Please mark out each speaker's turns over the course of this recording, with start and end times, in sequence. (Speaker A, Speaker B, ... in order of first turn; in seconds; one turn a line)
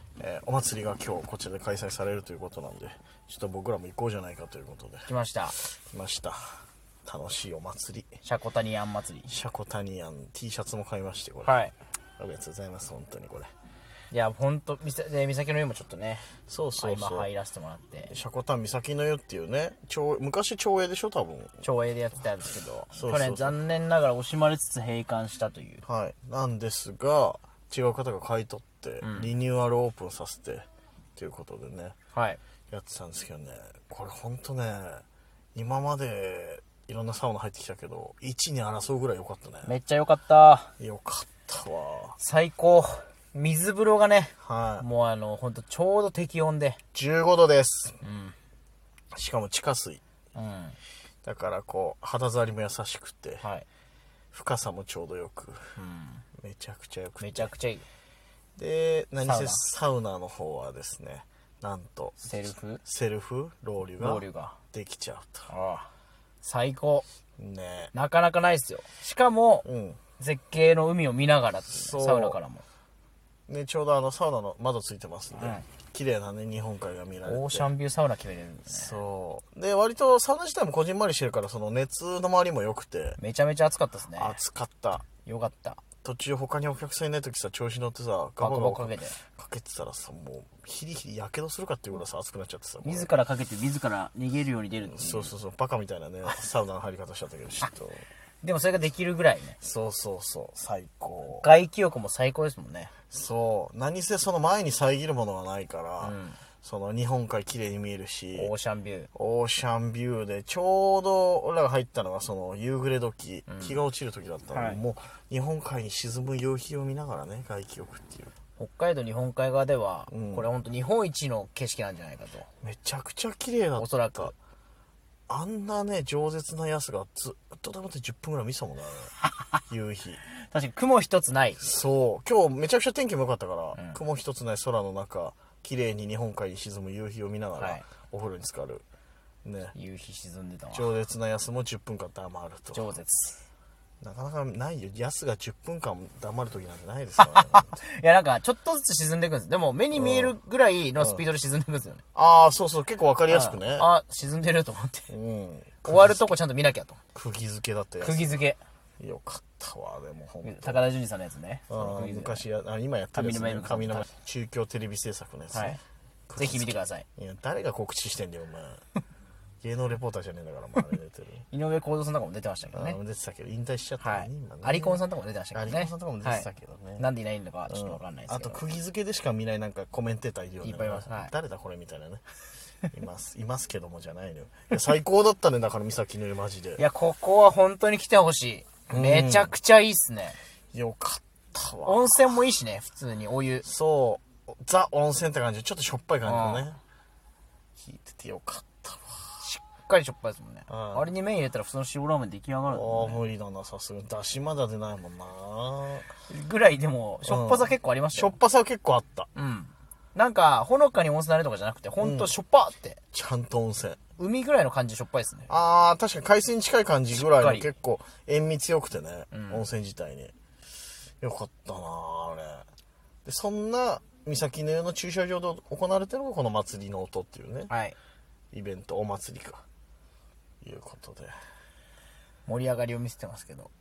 Speaker A: 0.2-8.2
Speaker B: 5.0-5.5
Speaker B: 8.2-9.3
Speaker A: 9.3-11.6
Speaker B: 11.4-11.7
Speaker A: 12.2-13.5
Speaker B: 14.1-18.1
Speaker A: 16.5-17.3
Speaker A: 18.1-21.6
Speaker B: 21.6-25.8
Speaker A: 22.9-23.6
Speaker A: 25.8-31.9
Speaker B: 29.0-29.3
Speaker B: 32.1-32.4
Speaker A: 32.7-39.7
Speaker B: 39.6-40.7
Speaker A: 40.8-42.2
Speaker B: 42.2-46.8
Speaker A: 44.4-44.9
Speaker A: 46.9-48.0
Speaker B: 48.0-48.4
Speaker A: 49.1-50.0
Speaker B: 50.3-50.8
Speaker A: 51.2-53.5
Speaker A: 54.3-55.8
Speaker B: 55.8-56.2
Speaker A: 56.4-57.5
Speaker B: 57.2-57.8
Speaker A: 58.6-65.5
Speaker B: 59.2-59.6
Speaker B: 62.2-62.8
Speaker B: 64.0-64.6
Speaker B: 65.5-65.9
Speaker B: 66.4-67.0
Speaker A: 67.4-67.9
Speaker B: 67.9-69.7
Speaker A: 69.6-70.0
Speaker B: 70.2-72.6
Speaker A: 71.7-72.4
Speaker A: 73.5-77.7
Speaker B: 75.3-75.6
Speaker B: 77.2-79.0
Speaker A: 78.7-83.2
Speaker B: 83.2-84.4
Speaker A: 84.2-85.0
Speaker B: 85.2-85.8
Speaker A: 86.0-93.1
Speaker B: 88.4-89.2
Speaker B: 92.8-95.3
Speaker A: 94.8-98.1
Speaker B: 98.4-99.6
Speaker A: 99.6-101.5
Speaker B: 101.3-102.9
Speaker A: 103.1-108.5
Speaker B: 106.0-106.4
Speaker B: 108.3-109.1
Speaker A: 109.1-118.3
Speaker B: 113.5-113.8
Speaker B: 114.5-114.8
Speaker B: 118.6-122.5
Speaker A: 120.1-120.5
Speaker A: 122.6-124.3
Speaker B: 123.8-124.3
Speaker A: 125.3-129.1
Speaker A: 129.7-130.2
Speaker B: 130.5-131.6
Speaker A: 131.6-138.8
Speaker B: 133.7-134.0
Speaker B: 137.6-137.8
Speaker A: 139.4-139.7
Speaker B: 139.7-140.9
Speaker A: 140.7-142.9
Speaker B: 142.7-143.4
Speaker A: 144.0-147.8
Speaker B: 147.2-152.0
Speaker A: 149.9-150.3
Speaker A: 152.1-153.9
Speaker B: 153.3-155.1
Speaker A: 155.1-156.3
Speaker B: 155.8-157.0
Speaker A: 157.1-158.4
Speaker B: 158.0-158.6
Speaker A: 159.0-160.8
Speaker B: 160.4-162.4
Speaker A: 161.7-168.8
Speaker B: 163.1-164.1
Speaker B: 165.5-165.8
Speaker B: 166.4-167.1
Speaker A: 169.6-171.4
Speaker B: 171.5-173.0
Speaker A: 172.7-175.0
Speaker B: 174.0-176.4
Speaker A: 175.5-177.0
Speaker B: 177.0-178.6
Speaker A: 177.7-182.2
Speaker B: 180.6-181.3
Speaker A: 182.8-186.8
Speaker B: 186.8-190.4
Speaker A: 188.9-189.6
Speaker A: 190.7-192.4
Speaker B: 191.8-193.7
Speaker A: 193.6-196.8
Speaker B: 196.2-196.6
Speaker A: 197.8-199.5
Speaker B: 199.4-203.2
Speaker A: 200.7-201.1
Speaker A: 202.7-206.1
Speaker B: 206.3-208.3
Speaker A: 207.2-209.3
Speaker B: 209.3-213.0
Speaker A: 212.0-212.3
Speaker A: 213.1-214.0
Speaker B: 214.2-215.5
Speaker A: 215.5-220.3
Speaker B: 217.1-217.7
Speaker B: 219.3-219.6
Speaker A: 221.2-222.7
Speaker A: 223.2-227.7
Speaker B: 227.7-227.9
Speaker A: 228.5-229.6
Speaker A: 230.6-231.3
Speaker B: 232.5-233.7